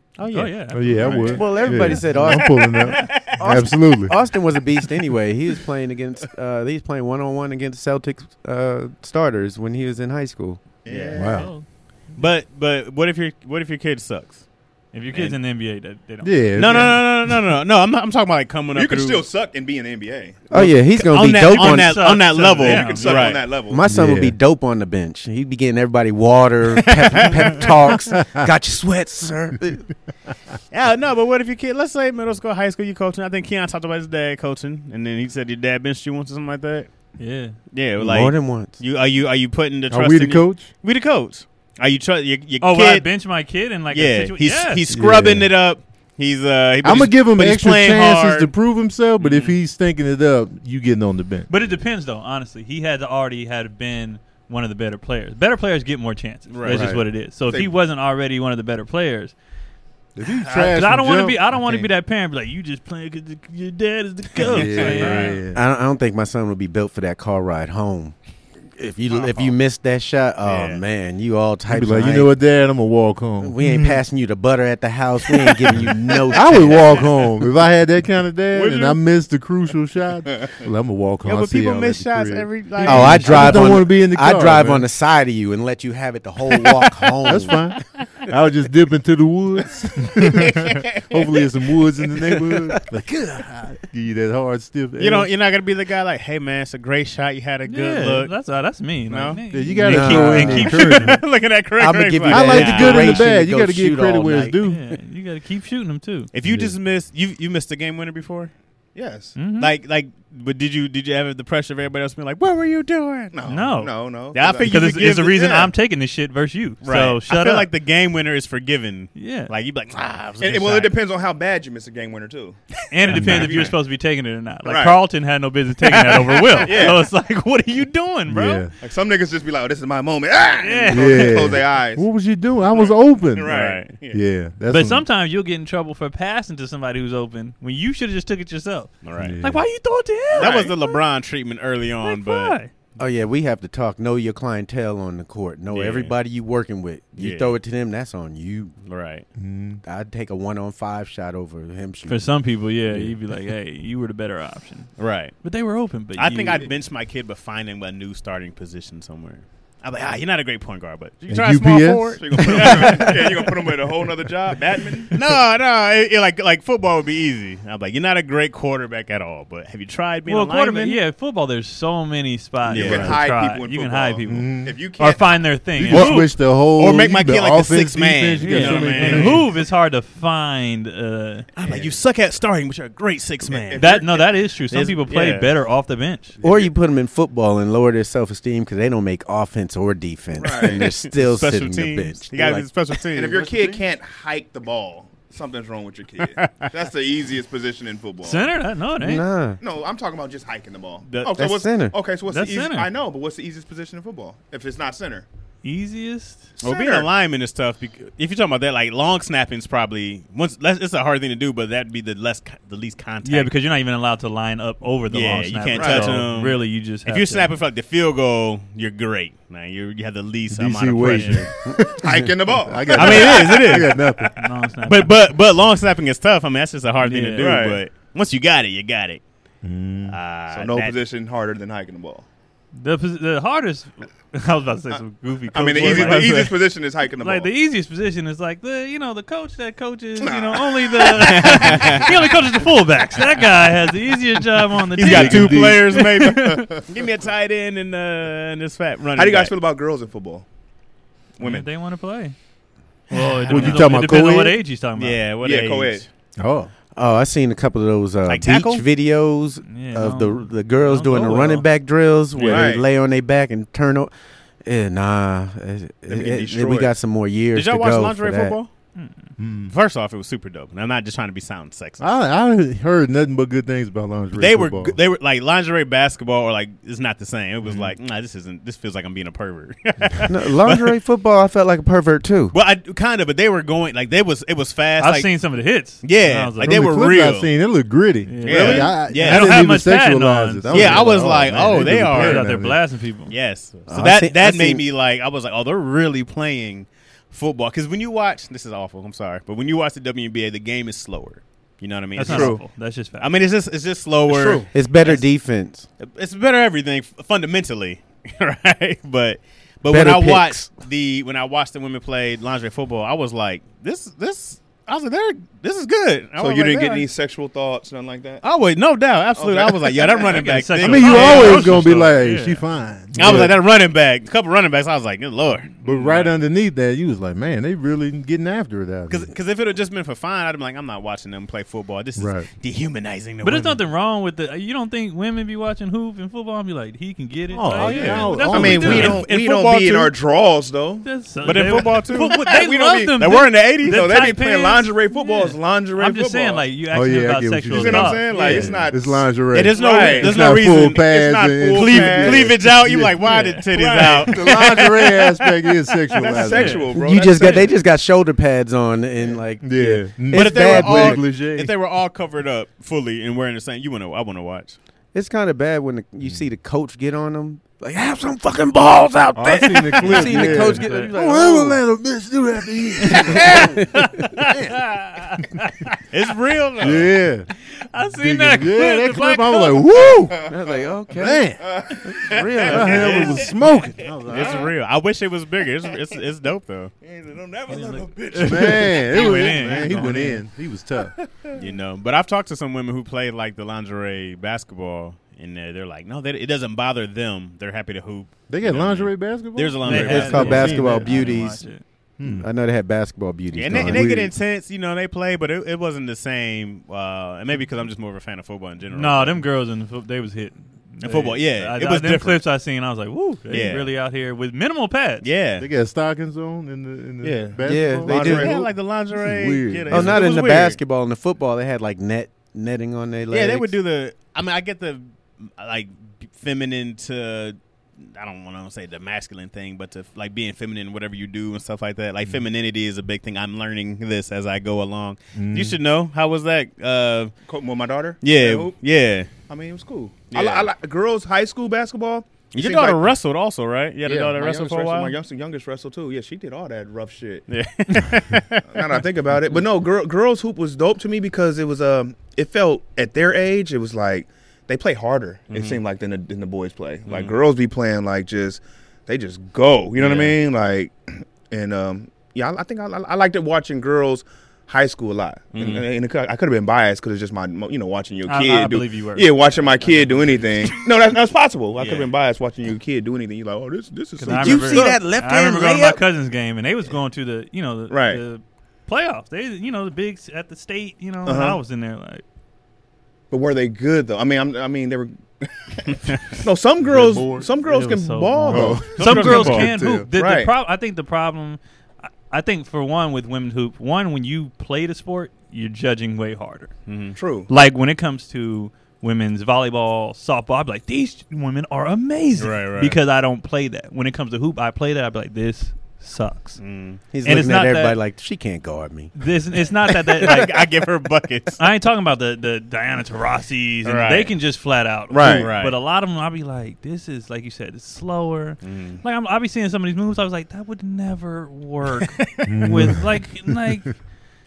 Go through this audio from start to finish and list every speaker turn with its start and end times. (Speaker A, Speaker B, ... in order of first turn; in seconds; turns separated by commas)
Speaker A: 0.2-3.4, Speaker B: 0.3-1.4, Speaker C: 0.7-4.2, Speaker D: 1.3-1.9, Speaker E: 1.4-10.8, Speaker D: 10.8-11.5, Speaker A: 10.9-11.3, Speaker C: 11.1-11.5, Speaker B: 11.3-12.3, Speaker A: 12.1-14.5, Speaker B: 14.9-16.9, Speaker A: 15.1-15.4, Speaker C: 16.2-17.3, Speaker A: 16.6-19.3, Speaker D: 18.7-20.4, Speaker E: 20.5-22.2, Speaker A: 20.5-23.5, Speaker B: 21.5-23.4, Speaker D: 22.4-23.9, Speaker E: 23.7-29.9, Speaker C: 23.9-24.4, Speaker A: 26.7-27.8, Speaker A: 30.7-37.1, Speaker B: 37.2-37.6, Speaker A: 37.7-43.2, Speaker E: 38.0-38.8, Speaker C: 39.9-40.7, Speaker B: 42.6-44.8, Speaker A: 43.9-48.5, Speaker C: 44.9-45.5, Speaker C: 46.8-51.5, Speaker A: 49.2-49.6, Speaker B: 51.5-59.4, Speaker A: 56.5-57.0, Speaker C: 56.7-57.0, Speaker C: 60.1-61.9, Speaker B: 60.2-65.4, Speaker C: 64.4-65.6, Speaker A: 64.4-65.4, Speaker E: 65.5-68.2, Speaker E: 68.8-72.3, Speaker A: 69.1-69.6, Speaker A: 70.4-70.8, Speaker C: 71.7-74.0, Speaker E: 73.4-77.0, Speaker C: 76.3-84.9, Speaker A: 78.5-79.0, Speaker A: 81.2-83.8, Speaker E: 82.8-87.7, Speaker C: 87.3-95.3, Speaker A: 90.3-91.5, Speaker A: 92.2-92.8, Speaker A: 95.0-103.2, Speaker B: 97.7-101.2, Speaker C: 99.5-101.2, Speaker E: 99.8-100.8, Speaker E: 101.8-104.6, Speaker C: 102.3-104.9, Speaker B: 102.6-103.0, Speaker B: 104.6-106.3, Speaker A: 106.3-108.5, Speaker C: 106.4-106.7, Speaker D: 109.0-109.4, Speaker B: 109.3-109.7, Speaker A: 109.4-113.4, Speaker D: 113.3-115.7, Speaker B: 113.5-114.0, Speaker A: 114.3-115.6, Speaker B: 114.6-117.7, Speaker A: 116.8-120.9, Speaker B: 119.2-119.5, Speaker D: 120.4-122.6, Speaker B: 122.9-128.7, Speaker D: 123.1-123.8, Speaker C: 123.1-123.6, Speaker A: 123.2-123.6, Speaker D: 124.7-125.0, Speaker A: 125.8-126.7, Speaker D: 126.6-127.1, Speaker C: 128.3-128.7, Speaker D: 128.8-132.1, Speaker B: 130.6-131.6, Speaker C: 130.9-135.1, Speaker D: 132.7-134.2, Speaker A: 133.4-134.0, Speaker B: 134.7-141.0, Speaker A: 139.0-139.4, Speaker C: 139.2-139.7, Speaker D: 140.3-140.7, Speaker A: 140.3-142.6, Speaker B: 142.0-142.7, Speaker E: 143.0-148.8, Speaker A: 145.7-146.2, Speaker A: 147.2-147.6, Speaker A: 148.9-149.3, Speaker C: 149.4-149.8, Speaker E: 149.8-152.4, Speaker B: 152.1-156.7, Speaker A: 155.0-155.4, Speaker A: 156.2-163.5, Speaker C: 161.3-163.0, Speaker D: 162.2-165.1, Speaker A: 165.1-171.0, Speaker B: 170.3-176.3, Speaker A: 172.7-173.2, Speaker D: 172.7-175.4, Speaker C: 172.8-173.2, Speaker C: 174.3-174.8, Speaker C: 175.8-179.4, Speaker A: 175.9-179.5, Speaker B: 178.4-181.5, Speaker A: 181.6-183.9, Speaker D: 181.6-182.0, Speaker D: 183.5-184.2, Speaker B: 183.8-186.4, Speaker A: 184.7-185.5, Speaker E: 186.4-192.7, Speaker D: 190.4-190.9, Speaker A: 190.7-193.5, Speaker D: 193.1-198.5, Speaker C: 193.3-193.8, Speaker A: 196.4-196.7, Speaker B: 198.2-199.3, Speaker E: 199.0-199.6, Speaker D: 199.6-205.3, Speaker A: 201.1-201.4, Speaker E: 201.4-201.9, Speaker B: 202.3-202.9, Speaker B: 205.6-206.5, Speaker D: 206.6-207.1, Speaker A: 206.6-213.5, Speaker B: 213.2-217.5, Speaker A: 215.1-221.5, Speaker D: 215.7-216.2, Speaker C: 220.5-224.4, Speaker B: 221.1-221.5, Speaker E: 221.7-222.1, Speaker D: 222.0-223.7, Speaker A: 222.9-224.1, Speaker B: 224.2-225.1, Speaker A: 224.8-229.2, Speaker B: 227.0-227.5, Speaker D: 227.4-227.8, Speaker C: 229.6-230.2, Speaker A: 230.1-231.0, Speaker D: 230.5-232.3, Speaker B: 232.7-246.7, Speaker D: 235.5-237.5, Speaker A: 235.7-236.5, Speaker D: 240.2-241.2, Speaker A: 241.1-242.1, Speaker A: 245.0-249.5, Speaker C: 245.0-245.8, Speaker D: 246.3-246.8, Speaker D: 249.2-250.5, Speaker D: 251.4-251.7, Speaker B: 251.4-252.4, Speaker B: 253.1-255.2, Speaker C: 253.1-254.6, Speaker A: 253.5-253.9, Speaker A: 255.0-256.1, Speaker D: 255.4-256.1, Speaker C: 256.4-256.7, Speaker E: 256.9-268.6, Speaker A: 258.3-258.9, Speaker B: 259.7-261.7, Speaker A: 262.4-262.7, Speaker D: 262.4-262.9, Speaker D: 266.1-266.9, Speaker A: 267.5-268.7, Speaker B: 268.9-269.3, Speaker C: 269.4-269.7, Speaker A: 269.7-272.1, Speaker C: 272.0-274.9, Speaker A: 274.3-281.0, Speaker E: 280.3-282.6, Speaker A: 282.5-285.3, Speaker B: 285.0-286.8, Speaker A: 286.0-287.5, Speaker C: 286.6-292.8, Speaker B: 288.3-293.3, Speaker A: 288.4-289.7, Speaker D: 288.5-288.9, Speaker A: 290.7-292.5, Speaker A: 293.3-302.6, Speaker E: 293.9-294.8, Speaker B: 302.2-303.3, Speaker D: 302.2-302.6, Speaker A: 303.2-305.3, Speaker D: 304.3-304.7, Speaker E: 304.7-305.9, Speaker A: 306.0-317.1, Speaker E: 309.9-310.7, Speaker D: 316.4-318.4, Speaker A: 318.4-321.9, Speaker D: 319.4-320.5, Speaker B: 320.3-322.6, Speaker C: 320.8-323.6, Speaker D: 321.1-321.8, Speaker A: 323.2-325.7, Speaker C: 325.8-329.3, Speaker B: 325.8-326.3, Speaker A: 329.1-333.8, Speaker C: 332.2-332.5, Speaker B: 333.4-339.2, Speaker C: 337.5-339.2, Speaker A: 337.8-340.1, Speaker D: 337.9-346.6, Speaker B: 341.0-348.9, Speaker A: 341.4-342.6, Speaker A: 343.2-344.1, Speaker C: 346.9-353.2, Speaker D: 347.7-350.6, Speaker A: 348.4-348.9, Speaker A: 349.5-356.3, Speaker D: 351.3-352.5, Speaker B: 353.3-353.6, Speaker D: 353.7-354.5, Speaker C: 354.3-356.9, Speaker D: 356.1-357.8, Speaker B: 356.5-356.9, Speaker E: 356.9-361.2, Speaker A: 357.4-357.7, Speaker C: 359.6-361.7, Speaker A: 360.3-364.8, Speaker E: 365.1-371.8, Speaker C: 369.3-373.9, Speaker B: 370.0-371.1, Speaker B: 373.0-376.0, Speaker E: 373.1-374.4, Speaker C: 374.4-374.9, Speaker A: 376.1-377.1, Speaker C: 376.8-377.5, Speaker B: 377.6-380.1, Speaker C: 378.1-380.4, Speaker D: 380.3-380.8, Speaker E: 380.5-381.5, Speaker C: 381.1-381.6, Speaker D: 381.6-384.6, Speaker E: 382.0-383.5, Speaker A: 382.6-383.4, Speaker C: 382.7-384.7, Speaker A: 384.3-386.9, Speaker D: 387.0-388.9, Speaker B: 387.7-390.4, Speaker C: 388.4-391.2, Speaker D: 391.2-391.6, Speaker A: 391.6-400.9, Speaker C: 398.5-401.4, Speaker B: 399.8-401.8, Speaker E: 399.9-404.3, Speaker C: 402.2-402.5, Speaker A: 403.5-409.4, Speaker C: 403.7-404.1, Speaker B: 408.9-415.3, Speaker A: 411.0-412.4, Speaker A: 413.5-413.9, Speaker A: 415.2-415.7, Speaker C: 415.6-420.2, Speaker D: 417.2-418.5, Speaker E: 417.6-418.5, Speaker A: 418.1-420.8, Speaker E: 419.9-423.7, Speaker A: 423.3-437.4, Speaker C: 435.3-435.8, Speaker D: 437.5-438.8, Speaker A: 438.2-439.3, Speaker D: 439.5-443.0, Speaker A: 440.3-440.7, Speaker A: 442.5-445.1, Speaker D: 444.1-447.5, Speaker A: 447.5-448.8, Speaker D: 448.6-461.0, Speaker A: 455.5-455.8, Speaker A: 457.1-457.4, Speaker A: 460.0-460.4, Speaker D: 461.5-475.0, Speaker A: 465.6-465.8, Speaker B: 468.3-470.9, Speaker A: 471.8-472.1, Speaker B: 474.2-482.2, Speaker E: 474.3-476.0, Speaker D: 477.9-478.2, Speaker D: 481.2-481.6, Speaker D: 483.3-488.9, Speaker C: 486.8-487.5, Speaker B: 487.6-496.7, Speaker C: 488.5-490.1, Speaker A: 488.8-489.7, Speaker D: 490.1-490.5, Speaker A: 496.9-497.2, Speaker D: 497.1-497.5, Speaker B: 497.5-506.7, Speaker A: 502.4-503.0, Speaker A: 506.6-507.0, Speaker E: 507.1-509.1, Speaker B: 507.2-508.0, Speaker B: 509.1-510.5, Speaker A: 510.2-511.6, Speaker B: 511.6-524.0, Speaker A: 513.9-514.3, Speaker D: 515.1-515.5, Speaker A: 515.2-515.8, Speaker A: 518.6-519.0, Speaker A: 522.0-522.9, Speaker C: 522.5-523.6